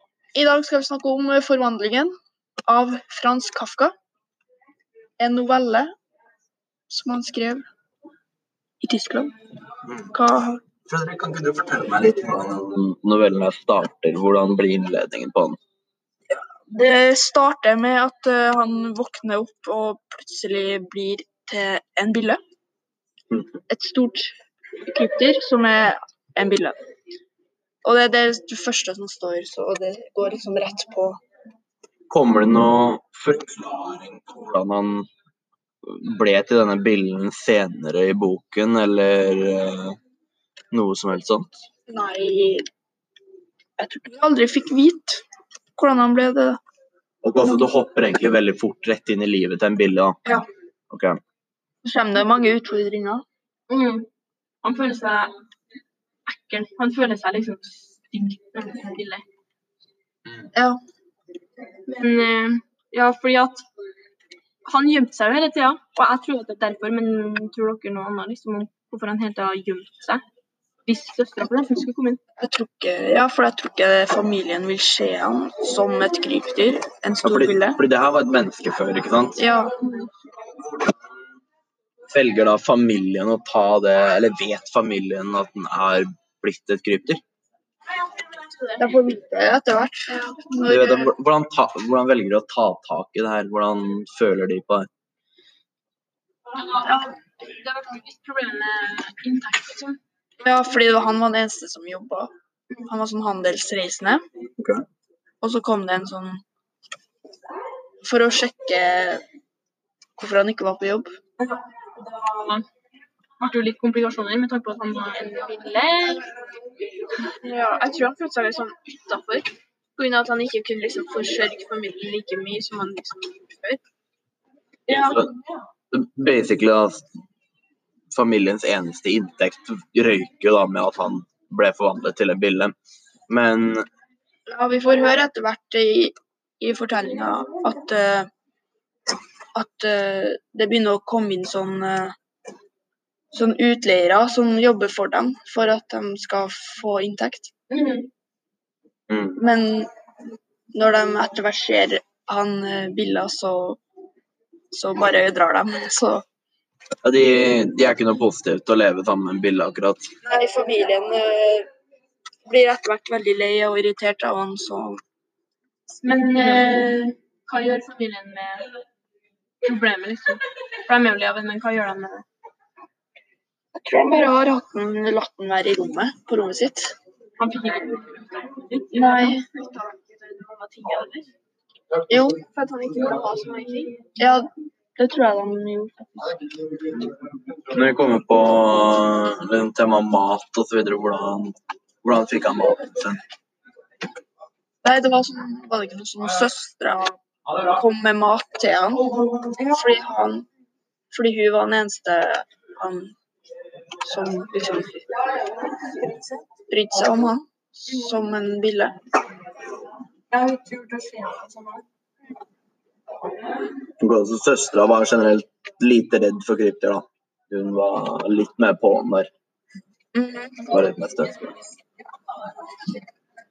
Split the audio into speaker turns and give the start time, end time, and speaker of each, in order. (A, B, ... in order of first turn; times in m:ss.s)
0:00.4-0:02.1 A
0:02.7-0:03.9 A
0:05.2-0:05.9 A
0:06.9-0:07.6 A
0:08.8-0:09.3 A
0:10.1-0:10.6 A
0:10.9-0:15.6 B
0:16.3-0:22.4 A
0:23.7-0:24.4 A
0:24.9-0:26.8 A
0:27.8-0:31.2 A
0:32.1-0:35.1 B
0:35.9-0:40.0 B
0:40.7-0:41.6 B
0:41.9-0:42.7 A
0:43.8-0:45.2 A
0:45.8-0:46.6 A
0:47.2-0:50.2 B
0:50.9-0:51.2 B
0:51.8-0:53.2 A
0:53.7-0:54.1 C
0:54.6-0:55.3 C
0:56.3-0:59.2 C
1:00.6-1:00.8 A
1:01.9-1:03.7 C
1:04.6-1:10.2 C
1:10.8-1:12.2 C
1:12.4-1:17.8 A
1:17.2-1:19.4 B
1:19.4-1:19.8 A
1:22.1-1:27.2 B
1:28.4-1:28.9 C
1:28.8-1:31.1 A
1:30.7-1:34.9 B
1:36.5-1:40.0 C
1:40.4-1:42.3 A
1:42.8-1:44.2 A
1:45.4-1:46.4 A
1:48.0-1:49.2 A
1:50.2-1:51.1 A
1:51.4-1:52.6 C
1:53.4-1:56.2 C
1:57.4-2:03.8 D
2:04.9-2:05.2 A
2:05.9-2:07.0 B
2:08.1-2:12.7 B
2:13.3-2:13.8 B
2:14.5-2:18.3 A
2:19.6-2:22.2 A
2:23.3-2:27.5 A
2:27.7-2:28.1 C
2:29.1-2:29.4 B
2:29.4-2:29.9 A
2:30.7-2:33.8 A
2:34.7-2:36.2 A
2:37.0-2:40.1 B
2:40.2-2:41.7 A
2:42.5-2:45.0 A
2:45.9-2:48.7 C
2:46.4-2:46.9 A
2:49.6-2:52.3 C
2:53.8-2:57.0 A
2:57.4-3:01.3 C
2:58.9-2:59.4 A
3:02.1-3:02.4 A
3:02.5-3:03.9 D
3:04.2-3:06.5 A
3:07.7-3:13.2 B
3:14.8-3:20.5 A
3:21.1-3:23.1 A
3:24.0-3:25.0 A
3:26.7-3:29.0 A
3:30.3-3:31.8 C
3:34.0-3:39.3 B
3:40.1-3:40.8 A
3:40.7-3:41.6 B